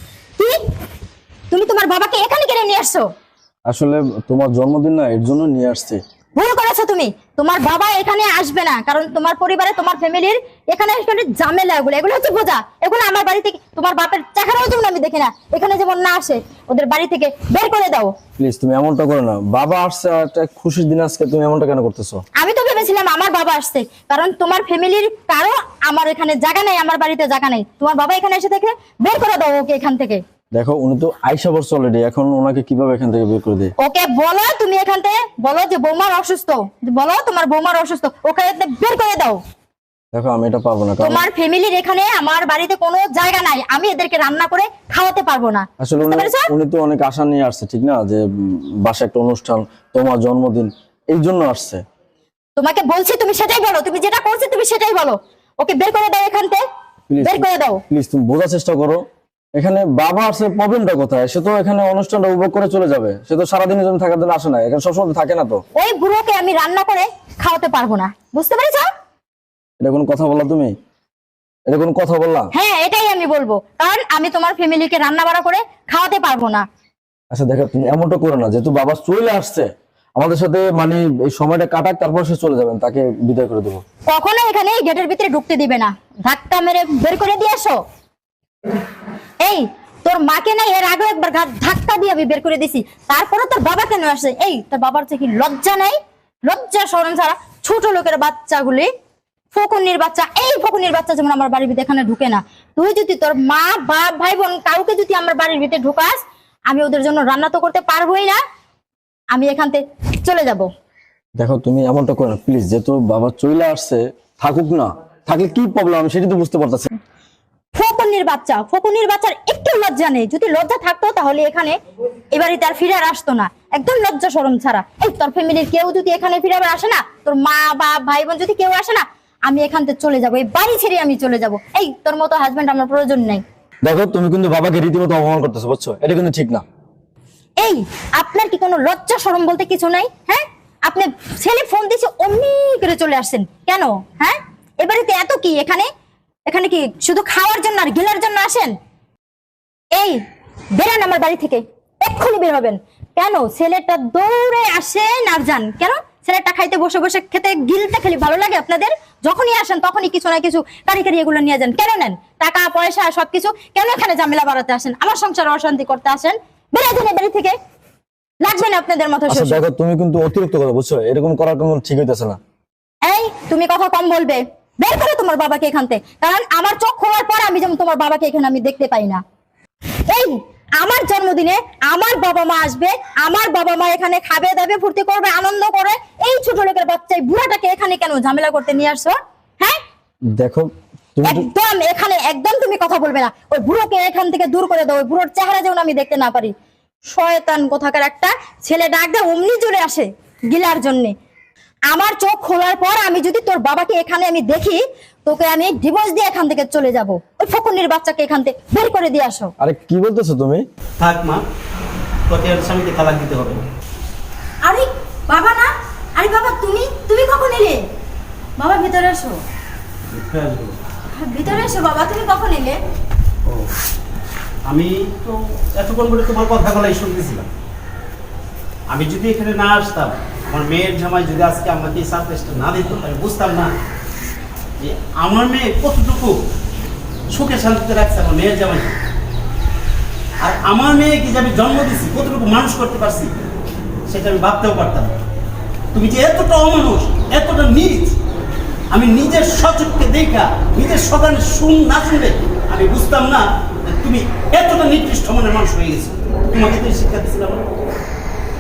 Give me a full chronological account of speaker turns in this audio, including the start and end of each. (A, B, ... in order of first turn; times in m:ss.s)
0:01.5-0:03.1 A
0:03.7-0:06.0 B
0:06.4-0:18.1 A
0:18.4-0:22.2 B
0:22.4-0:30.2 A
0:30.5-0:33.7 B
0:33.8-0:39.4 A
0:40.1-0:41.2 B
0:41.0-0:46.5 A
0:45.8-0:51.8 B
0:52.6-0:56.6 A
0:57.1-0:59.0 B
0:57.2-0:57.8 A
0:59.6-1:05.6 B
1:05.8-1:08.9 A
1:09.8-1:10.7 B
1:11.7-1:12.5 B
1:12.5-1:16.6 A
1:17.3-1:23.8 B
1:24.1-1:27.8 A
1:29.4-1:38.9 A
1:39.5-1:48.4 A
1:49.3-1:50.7 A
1:51.4-1:56.9 B
1:57.8-2:01.8 A
2:02.3-2:13.4 A
2:13.8-2:16.6 B
2:17.6-2:25.9 A
2:26.5-2:28.8 A
2:30.8-2:47.6 A
2:48.4-2:49.6 A
2:49.3-2:52.4 B
2:53.1-2:59.2 A
3:00.1-3:09.8 A
3:10.4-3:11.5 B
3:11.2-3:16.6 A
3:17.1-3:21.2 A
3:21.9-3:29.5 A
3:29.6-3:30.7 B
3:31.0-3:31.4 C
3:32.3-3:33.6 C
3:34.6-3:37.8 A
3:38.6-3:39.4 A
3:40.1-3:40.8 C
3:41.1-3:42.8 A
3:44.7-3:47.5 C
3:48.9-3:53.7 C
3:54.8-3:56.4 C
3:57.3-3:59.0 C
4:00.4-4:03.3 C
4:04.1-4:05.1 C
4:05.9-4:08.2 C
4:08.9-4:17.6 C